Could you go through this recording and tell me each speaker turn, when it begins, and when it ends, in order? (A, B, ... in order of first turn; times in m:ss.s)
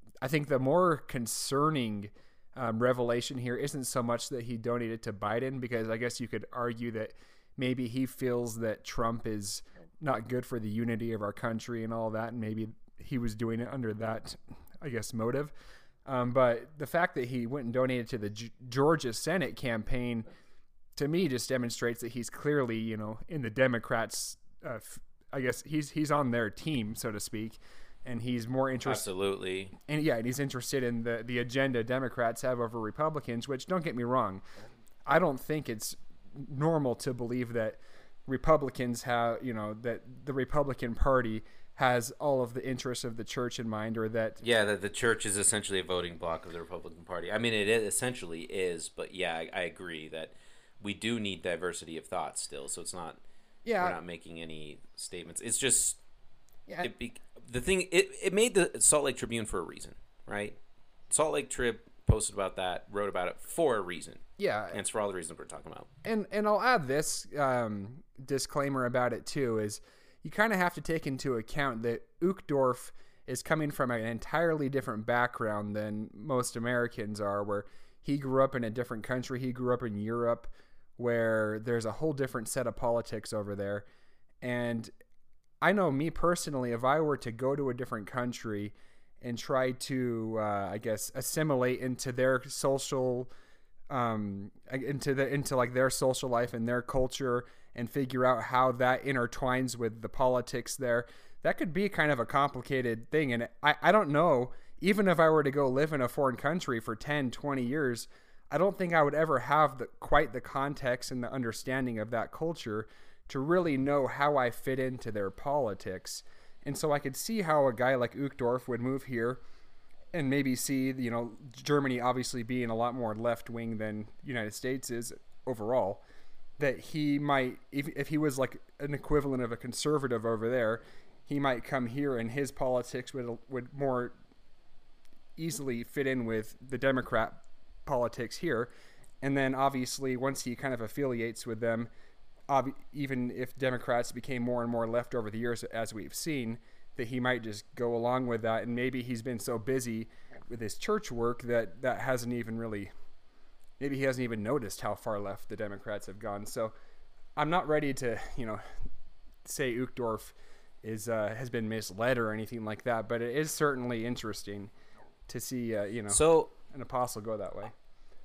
0:00.2-0:15.5 A
0:16.0-0:20.2 A
0:21.0-0:29.0 A
0:28.8-0:29.8 B
0:29.8-0:34.4 A
0:35.1-0:44.4 A
0:44.4-0:53.2 B
0:53.6-0:54.0 A
0:53.8-0:56.0 B
0:56.8-1:00.6 B
1:01.1-1:05.9 B
1:04.4-1:04.8 A
1:06.0-1:23.8 A
1:24.4-1:24.9 A
1:25.6-1:33.3 A
1:33.9-1:59.4 A
2:00.1-2:06.0 A
2:06.6-2:14.2 A
2:15.4-2:18.7 A
2:19.2-2:21.9 A
2:22.5-2:32.9 A
2:33.8-2:36.7 A
2:37.4-2:38.8 A
2:39.4-2:44.7 A
2:45.3-2:47.7 A
2:46.1-2:46.5 B